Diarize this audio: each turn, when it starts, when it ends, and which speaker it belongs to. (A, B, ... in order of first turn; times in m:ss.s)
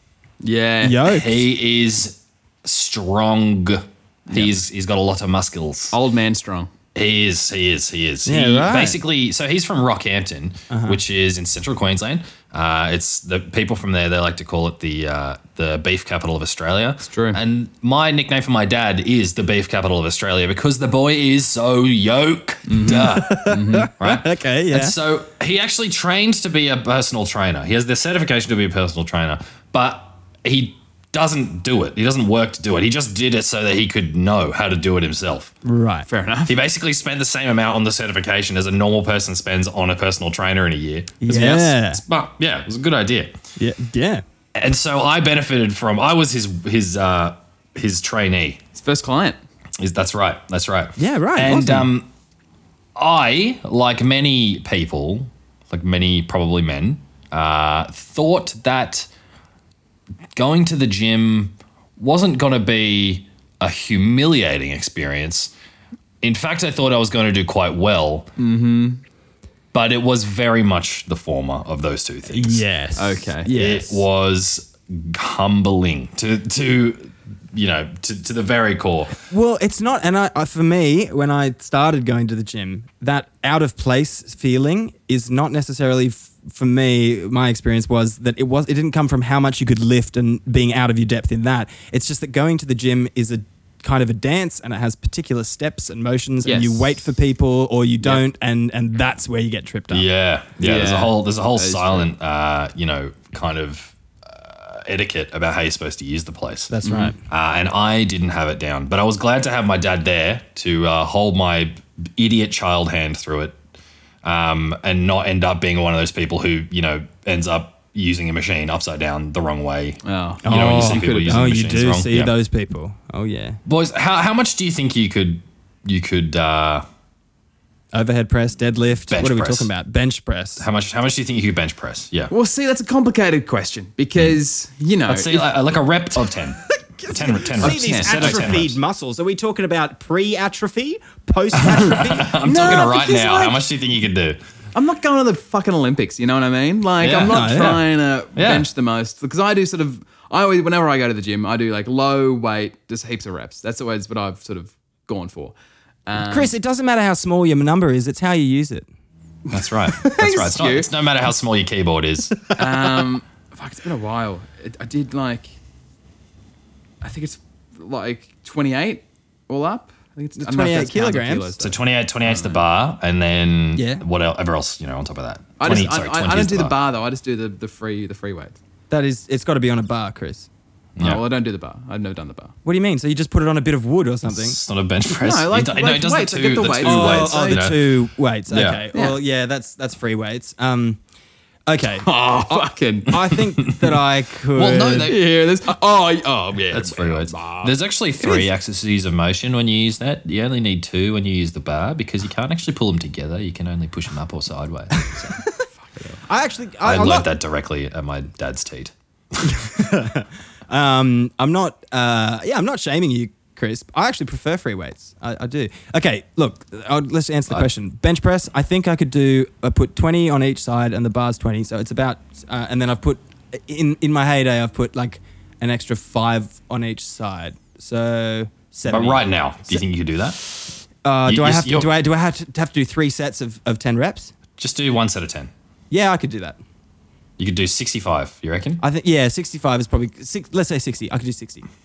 0:00.4-0:01.0 A
0:00.8-0:01.5 B
0:01.0-0:06.0 C
0:04.3-0:04.6 A
0:05.9-0:06.7 A
0:07.0-0:35.5 C
0:08.3-0:09.0 B
0:10.7-0:11.0 B
0:17.0-0:17.4 A
0:22.7-0:23.9 A
0:23.1-0:25.0 B
0:35.6-0:36.1 B
0:36.1-0:36.6 A
0:36.5-0:43.4 C
0:41.2-0:42.0 B
0:43.6-0:44.2 B
0:44.6-0:48.6 C
0:48.8-0:49.4 A
0:49.8-0:52.1 C
0:51.0-0:51.9 B
0:53.0-0:59.1 C
1:00.4-1:05.5 C
1:06.2-1:08.3 C
1:08.4-1:09.0 A
1:09.7-1:12.6 C
1:12.3-1:14.0 B
1:13.0-1:13.5 A
1:13.5-1:19.2 C
1:19.3-1:40.1 B
1:36.4-1:36.9 A
1:39.9-1:46.8 C
1:40.6-1:42.1 A
1:46.7-1:47.2 B
1:46.8-1:47.1 A
1:47.3-1:53.6 C
1:54.2-2:02.3 C
2:00.0-2:01.5 A
2:00.4-2:03.6 B
2:03.7-2:06.8 C
2:07.9-2:10.6 B
2:09.1-2:09.7 C
2:10.6-2:12.3 C
2:12.3-2:15.5 A
2:15.1-2:18.8 C
2:16.8-2:22.4 B
2:17.6-2:18.5 A
2:21.6-2:24.4 C
2:22.4-2:23.6 A
2:24.8-2:36.5 A
2:27.0-2:27.8 C
2:27.2-2:27.8 B
2:28.4-2:28.7 C
2:36.2-2:38.9 B
2:39.5-2:42.5 C
2:39.9-2:40.9 A
2:42.6-2:45.5 A
2:47.0-2:52.6 A
2:50.4-2:51.5 B
2:51.6-2:56.8 C
2:53.8-2:54.0 B
2:55.6-2:58.6 A
2:58.9-3:00.5 B
3:01.0-3:01.2 C
3:01.0-3:02.6 A
3:02.6-3:04.6 B
3:04.3-3:08.8 C
3:05.1-3:07.6 A
3:06.8-3:11.0 B
3:08.9-3:09.2 A
3:11.7-3:15.1 B
3:12.0-3:13.2 A
3:13.6-3:13.9 C
3:14.5-3:15.3 C
3:15.0-3:17.7 A
3:16.7-3:25.4 C
3:25.8-3:26.2 A
3:26.3-3:27.3 B
3:26.8-3:29.5 C
3:29.4-3:49.8 B
3:48.9-3:50.4 C
3:51.0-3:54.4 B
3:51.3-3:51.9 C
3:54.6-3:55.5 C
3:55.9-3:56.6 B
3:57.4-3:58.8 C
3:58.8-4:01.7 B